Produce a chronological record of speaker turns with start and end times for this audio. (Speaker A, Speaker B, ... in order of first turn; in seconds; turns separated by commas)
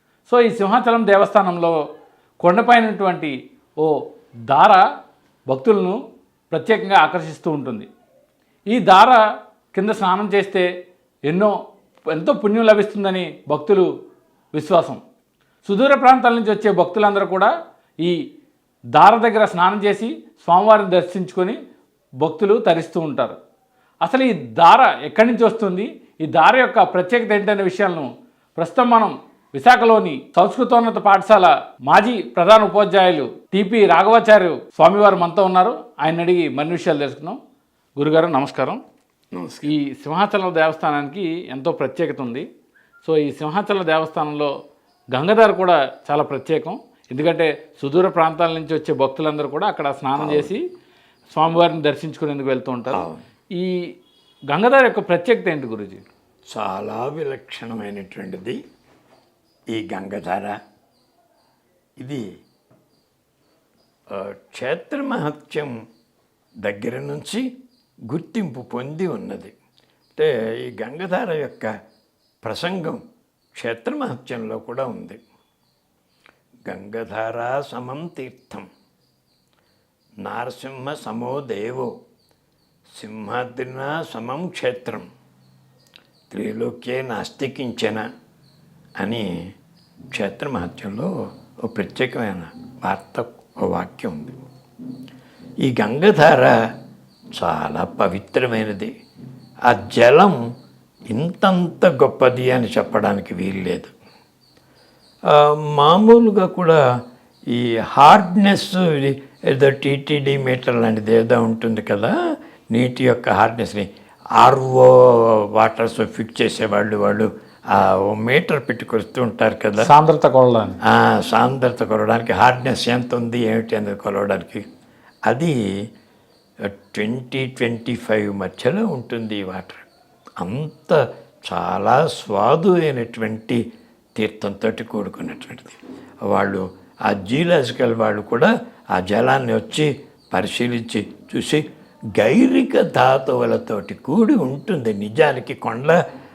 Speaker A: 0.3-1.8, Speaker A: 2.4-4.0, Speaker A: 4.5-4.8, Speaker A: 5.5-6.0, Speaker A: 6.5-7.9, Speaker A: 8.7-9.2, Speaker A: 9.7-10.7, Speaker A: 11.3-11.5, Speaker A: 12.1-13.9, Speaker A: 14.5-15.0, Speaker A: 15.6-17.5, Speaker A: 18.9-21.6, Speaker A: 22.2-23.4, Speaker A: 24.0-37.4, Speaker A: 38.0-38.8, Speaker B: 39.3-39.7, Speaker A: 39.6-42.5, Speaker A: 43.0-44.5, Speaker A: 45.1-50.6, Speaker B: 50.1-50.5, Speaker A: 51.3-53.0, Speaker B: 52.9-53.2, Speaker A: 54.5-56.0, Speaker B: 56.5-58.6, Speaker B: 59.7-60.5, Speaker B: 64.1-65.7, Speaker B: 66.6-67.5, Speaker B: 68.1-69.5, Speaker B: 70.1-71.7, Speaker B: 72.4-73.0, Speaker B: 73.5-75.2, Speaker B: 76.7-78.7, Speaker B: 80.2-81.9, Speaker B: 83.0-85.0, Speaker B: 86.3-88.0, Speaker B: 89.0-89.5, Speaker B: 90.1-91.1, Speaker B: 91.7-94.3, Speaker B: 95.6-96.5, Speaker B: 97.3-98.9, Speaker B: 99.7-100.4, Speaker B: 101.1-103.9, Speaker B: 105.3-106.8, Speaker B: 107.5-112.1, Speaker B: 112.7-119.9, Speaker A: 119.8-120.8, Speaker B: 120.8-124.6, Speaker B: 125.3-125.5, Speaker B: 126.6-129.8, Speaker B: 130.4-133.6, Speaker B: 134.2-141.6, Speaker B: 142.2-146.0